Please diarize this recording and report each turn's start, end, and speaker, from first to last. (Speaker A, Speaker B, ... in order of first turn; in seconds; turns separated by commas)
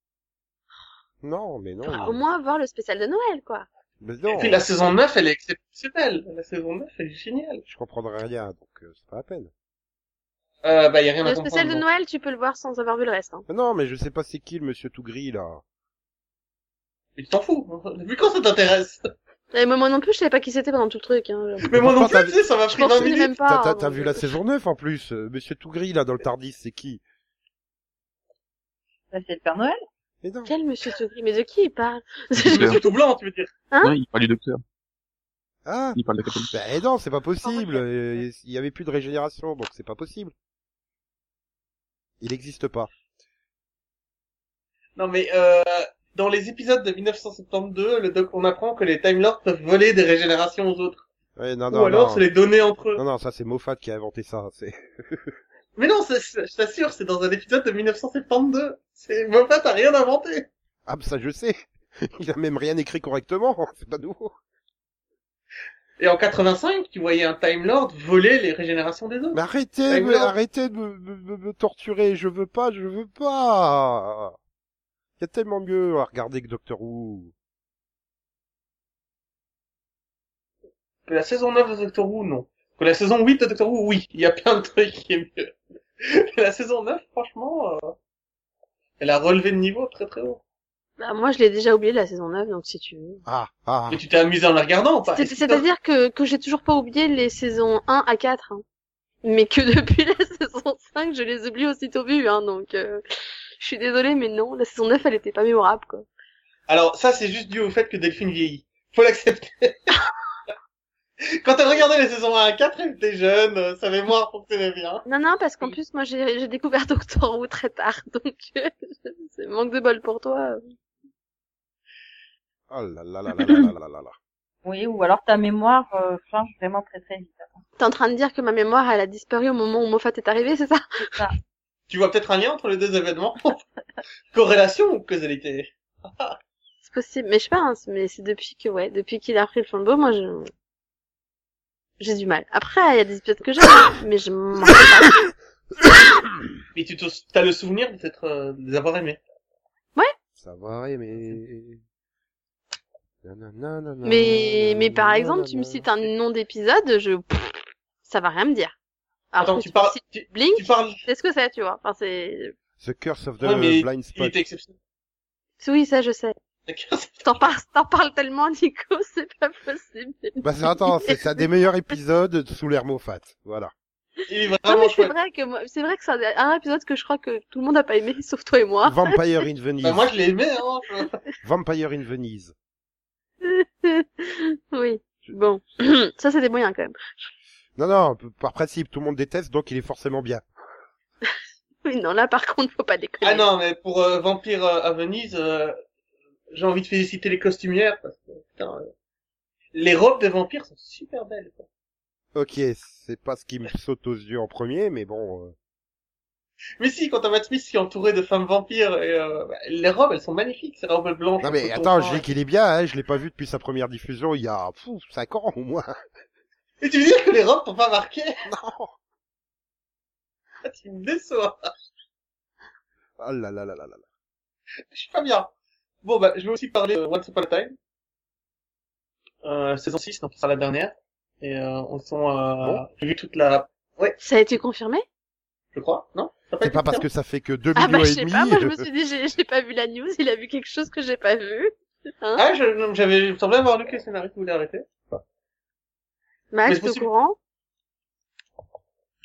Speaker A: 1.2-2.2, Speaker B: 1.9-3.7, Speaker A: 4.0-4.6, Speaker C: 4.3-7.6, Speaker A: 7.7-9.5, Speaker C: 10.6-11.8, Speaker B: 11.2-13.4, Speaker A: 13.5-15.6, Speaker C: 17.2-19.1, Speaker B: 19.5-21.9, Speaker C: 21.6-23.3, Speaker A: 21.8-27.0, Speaker B: 22.7-24.2, Speaker D: 29.1-29.8, Speaker A: 30.2-30.5, Speaker B: 30.5-32.8, Speaker E: 32.4-32.8, Speaker C: 32.4-33.5, Speaker E: 33.8-34.6, Speaker A: 35.7-40.3, Speaker E: 36.0-36.5, Speaker B: 37.4-37.8, Speaker A: 42.2-42.9, Speaker C: 45.0-51.1, Speaker A: 51.4-52.2, Speaker C: 51.7-53.0, Speaker A: 53.0-55.4, Speaker C: 55.8-60.5, Speaker A: 60.9-64.3, Speaker C: 66.0-70.3, Speaker A: 69.3-74.3, Speaker A: 75.2-77.3, Speaker C: 81.1-88.0, Speaker C: 89.0-90.4, Speaker B: 91.0-93.2, Speaker A: 93.3-94.0, Speaker C: 93.9-95.6, Speaker B: 95.1-98.6, Speaker B: 99.2-103.0, Speaker B: 103.6-106.1, Speaker C: 106.7-109.9, Speaker C: 111.4-115.0, Speaker B: 115.1-120.6, Speaker A: 122.7-124.2, Speaker D: 124.7-127.6, Speaker B: 127.8-131.3, Speaker C: 131.9-133.6, Speaker C: 134.3-136.4, Speaker B: 136.8-140.5, Speaker B: 142.0-145.3, Speaker C: 146.7-149.2, Speaker A: 150.4-151.8, Speaker A: 153.2-155.9, Speaker B: 154.0-158.7, Speaker B: 159.3-162.5, Speaker C: 159.4-161.0, Speaker A: 162.8-164.4, Speaker C: 163.4-164.8, Speaker B: 165.6-166.4, Speaker C: 166.7-167.2, Speaker B: 167.2-171.2, Speaker A: 170.4-173.7, Speaker C: 174.3-175.1, Speaker B: 174.7-179.1, Speaker A: 178.8-180.1, Speaker C: 179.8-181.2, Speaker A: 181.4-182.5, Speaker B: 183.4-187.3, Speaker A: 187.8-190.4, Speaker B: 191.8-193.5, Speaker C: 193.2-195.8, Speaker C: 196.5-198.9, Speaker C: 199.7-201.7, Speaker A: 202.3-205.6, Speaker C: 206.8-212.3, Speaker A: 211.4-216.0, Speaker C: 216.8-218.4, Speaker A: 218.4-219.0, Speaker C: 220.7-221.7, Speaker A: 223.2-224.0, Speaker C: 224.9-225.5, Speaker C: 226.0-227.8, Speaker C: 229.4-234.2, Speaker B: 234.2-235.0, Speaker C: 235.8-237.1, Speaker A: 236.6-238.9, Speaker B: 237.8-242.4, Speaker C: 242.4-245.2, Speaker B: 246.5-247.4, Speaker C: 246.7-247.1